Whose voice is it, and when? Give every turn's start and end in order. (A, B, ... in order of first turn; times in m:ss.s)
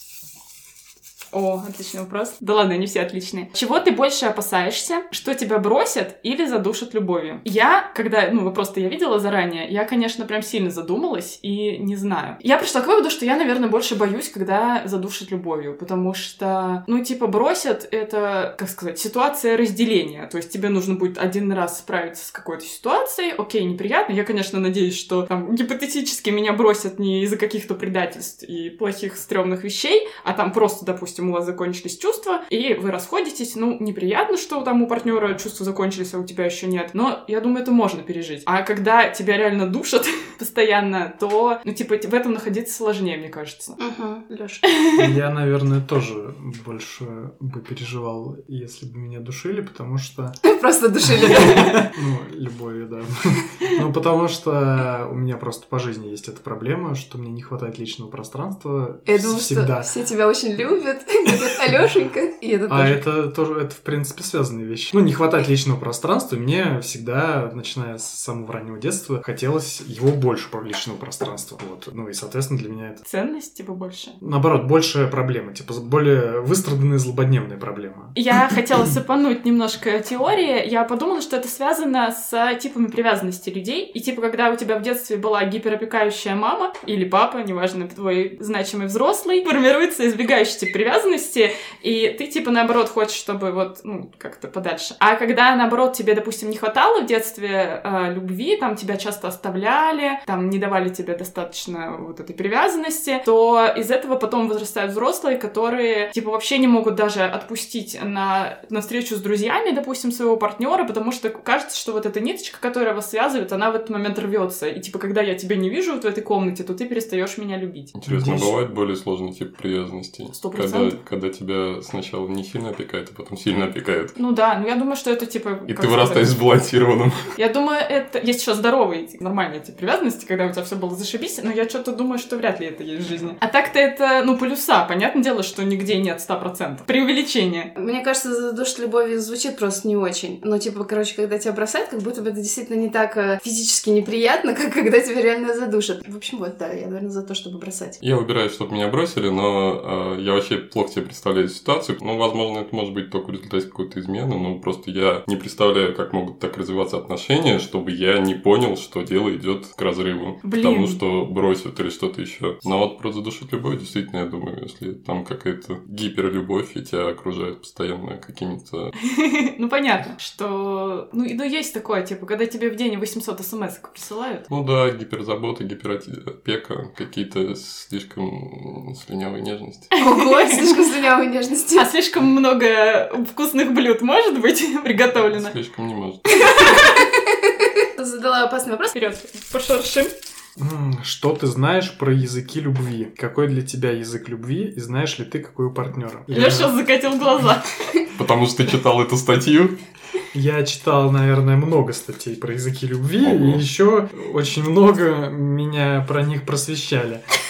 0:01.3-0:43.8 A
0:43.8-0:44.6 B
0:45.0-0:50.4 C
0:50.4-0:51.9 B
0:51.1-0:59.9 C
0:51.3-0:51.7 A
0:59.1-1:03.0 B
1:01.3-1:01.8 C
1:02.7-1:13.0 C
1:13.0-1:14.2 A
1:14.2-1:18.2 C
1:18.2-1:57.9 A
1:58.0-2:04.2 D
1:58.1-1:58.5 C
2:00.3-2:01.0 A
2:04.2-2:06.4 A
2:05.7-2:07.3 D
2:07.4-2:17.7 A
2:17.8-2:28.0 B
2:28.0-2:48.9 D
2:40.4-2:41.0 A
2:49.1-2:54.4 A
2:54.5-2:59.9 D
3:00.0-3:00.7 A
3:00.0-3:01.9 B
3:01.8-3:05.6 A
3:05.2-3:06.4 D
3:06.4-3:08.9 B
3:08.9-3:10.1 A
3:10.6-3:16.7 C
3:16.3-3:17.7 A
3:18.2-3:19.8 D
3:20.3-3:27.2 C
3:23.2-3:23.6 D